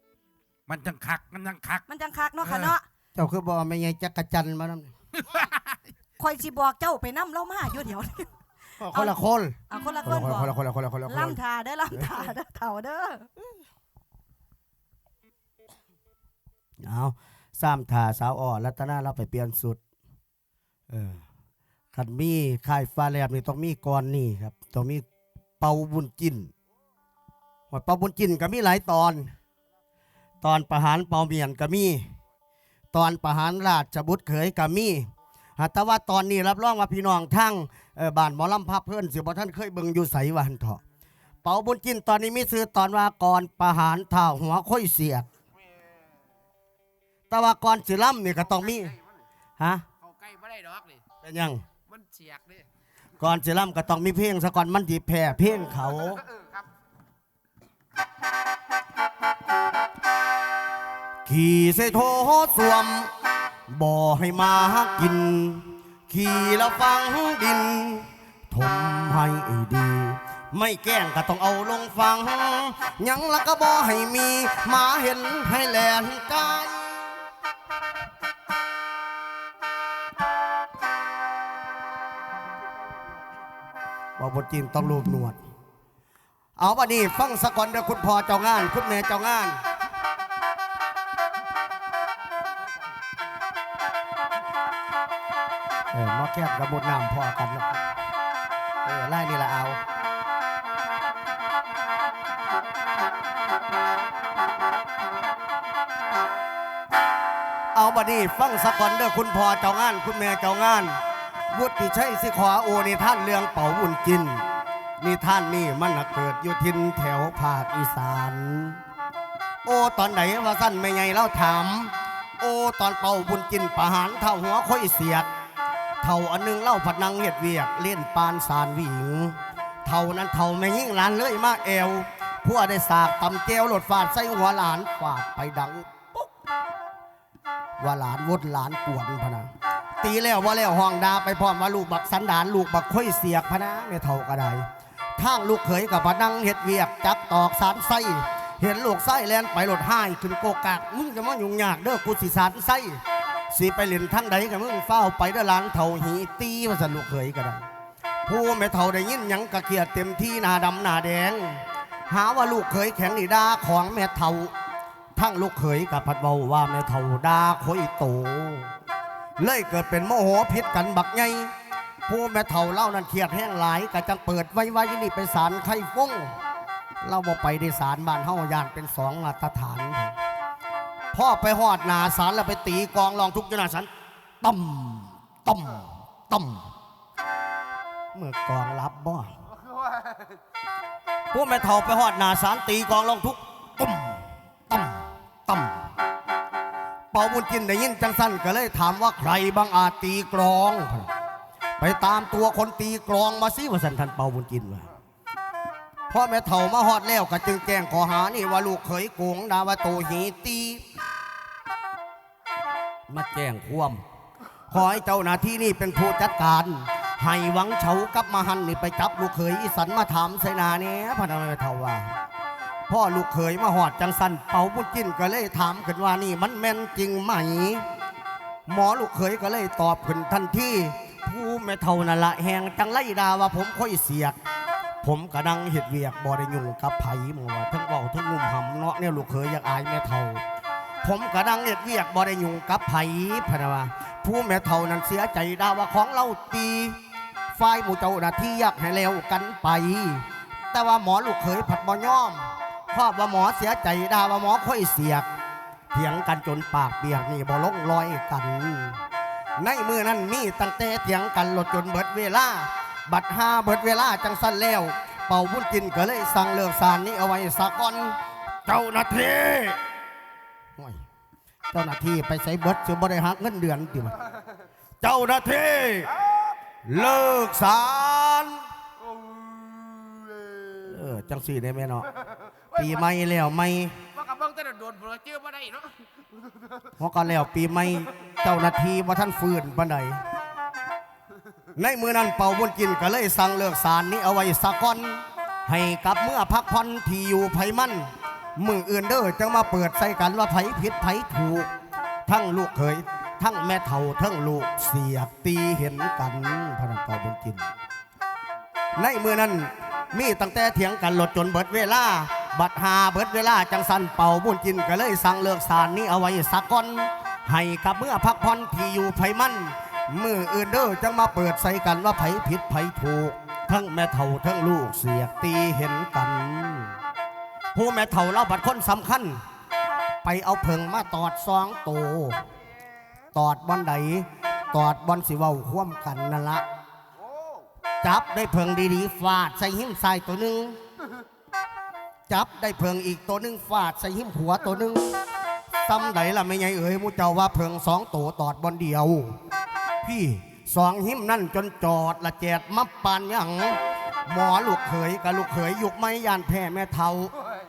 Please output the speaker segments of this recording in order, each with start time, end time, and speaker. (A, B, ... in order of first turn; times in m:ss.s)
0:00.7-0:01.8 A
0:01.9-0:02.8 B
0:02.4-0:02.7 A
0:03.1-0:04.9 C
0:05.2-0:05.8 A
0:06.2-0:09.2 B
0:08.8-0:11.4 C
0:09.7-0:10.5 B
0:11.1-0:13.5 B
0:16.8-0:19.8 C
0:20.9-0:21.2 C
0:21.9-0:25.0 C
0:25.6-0:26.5 C
0:27.7-0:29.3 C
0:30.4-0:32.1 C
0:32.9-0:40.8 C
0:41.4-0:45.3 C
0:47.3-0:48.9 C
0:49.6-0:49.8 C
0:50.0-0:51.0 D
0:51.2-0:51.6 C
0:51.9-0:52.6 D
0:53.2-0:56.2 C
1:01.2-1:03.1 C
1:03.7-1:17.0 C
1:24.2-1:25.4 C
1:26.6-1:29.6 C
1:35.9-1:37.8 C
1:38.8-1:39.8 C
1:47.7-1:51.0 C
1:51.5-1:54.4 C
1:55.0-1:58.8 C
1:59.6-2:05.3 C
2:06.0-2:16.3 C
2:17.8-2:19.5 C
2:20.0-2:24.6 C
2:25.2-2:33.0 C
2:33.5-2:37.6 C
2:38.2-2:44.5 C
2:45.2-2:48.7 C
2:49.4-2:51.5 C
2:52.1-2:56.3 C
2:57.0-3:00.2 C
3:01.1-3:03.9 C
3:04.4-3:06.7 C
3:08.1-3:09.3 C
3:11.3-3:15.8 C
3:17.1-3:21.1 C
3:21.8-3:24.9 C
3:26.1-3:30.8 C
3:33.1-3:34.0 C
3:34.7-3:42.1 C
3:42.9-3:47.8 C
3:48.7-3:54.4 C
3:55.0-4:00.4 C
4:01.0-4:07.0 C
4:07.5-4:15.3 C
4:15.9-4:19.0 C
4:19.6-4:29.8 C
4:30.8-4:31.0 C
4:31.7-4:34.2 C
4:35.0-4:36.1 C
4:36.8-4:38.6 C
4:40.7-4:42.1 C
4:42.7-4:44.0 C
4:44.1-4:46.0 D
4:47.0-4:50.2 C
4:51.8-5:01.7 C
5:02.3-5:07.7 C
5:09.0-5:27.0 C
5:27.7-5:29.4 C
5:30.2-5:32.4 C
5:33.3-5:36.6 C
5:38.0-5:40.8 C
5:42.3-5:45.2 C
5:45.9-5:49.4 C
5:50.0-5:57.3 C